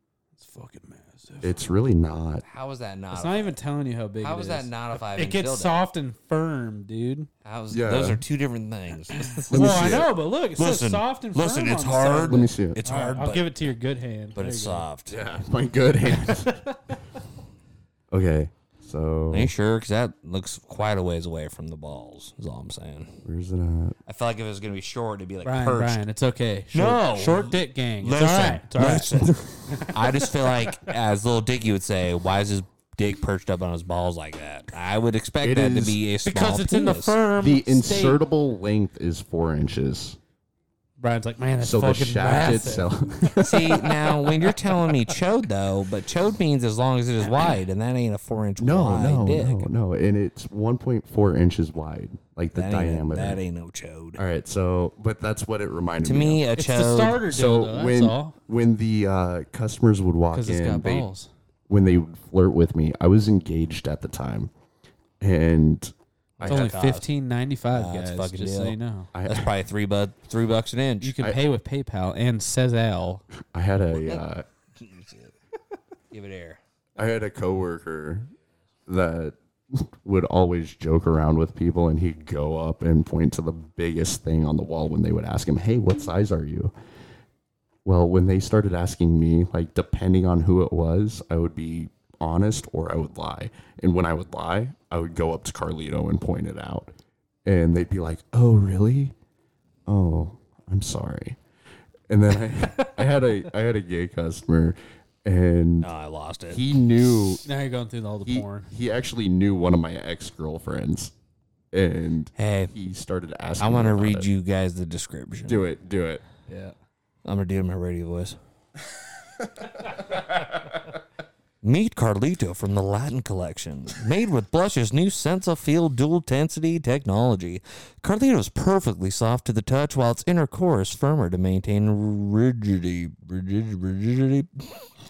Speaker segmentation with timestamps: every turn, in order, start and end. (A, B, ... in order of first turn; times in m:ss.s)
0:00.4-0:01.7 A
0:01.4-0:02.4 B
0:02.4-0:03.6 C
0:03.1-0:07.3 A
0:04.2-0:05.8 C
0:07.4-0:13.5 C
0:07.7-0:08.2 B
0:09.2-0:14.8 A
0:09.5-0:10.1 B
0:12.2-0:12.8 B
0:14.4-0:15.2 C
0:15.1-0:16.5 B
0:16.2-0:17.0 A
0:18.1-0:19.5 B
0:19.3-0:23.2 C
0:23.2-0:24.0 B
0:24.1-0:26.0 C
0:25.4-0:29.2 A
0:26.7-0:37.2 C
0:29.1-0:29.5 B
0:29.7-0:30.8 A
0:35.4-0:36.0 B
0:36.2-0:38.2 A
0:37.4-0:40.2 B
0:41.0-0:43.3 A
0:41.6-0:44.0 B
0:43.4-0:49.7 C
0:48.6-0:53.4 B
0:52.5-0:54.2 C
0:54.2-0:56.4 B
0:56.0-0:57.2 C
0:56.6-0:58.3 A
0:57.2-1:01.1 B
1:00.3-1:01.3 A
1:01.7-1:04.5 B
1:05.2-1:06.7 B
1:06.4-1:07.1 C
1:06.4-1:09.1 A
1:07.7-1:11.1 C
1:09.1-1:09.5 B
1:11.0-1:13.2 A
1:13.5-1:14.4 B
1:14.8-1:15.3 C
1:16.1-1:16.6 C
1:17.0-1:18.3 B
1:18.9-1:26.7 B
1:27.8-1:36.9 B
1:37.4-1:39.1 B
1:39.9-1:41.4 B
1:42.1-1:45.9 B
1:45.8-1:46.6 C
1:46.5-1:47.4 B
1:47.4-1:48.7 A
1:48.2-1:51.1 B
1:51.7-1:54.3 B
1:52.4-1:52.7 C
1:53.6-1:55.7 C
1:55.5-1:56.2 B
1:56.5-1:56.8 A
1:57.2-1:58.4 C
2:01.6-2:14.7 C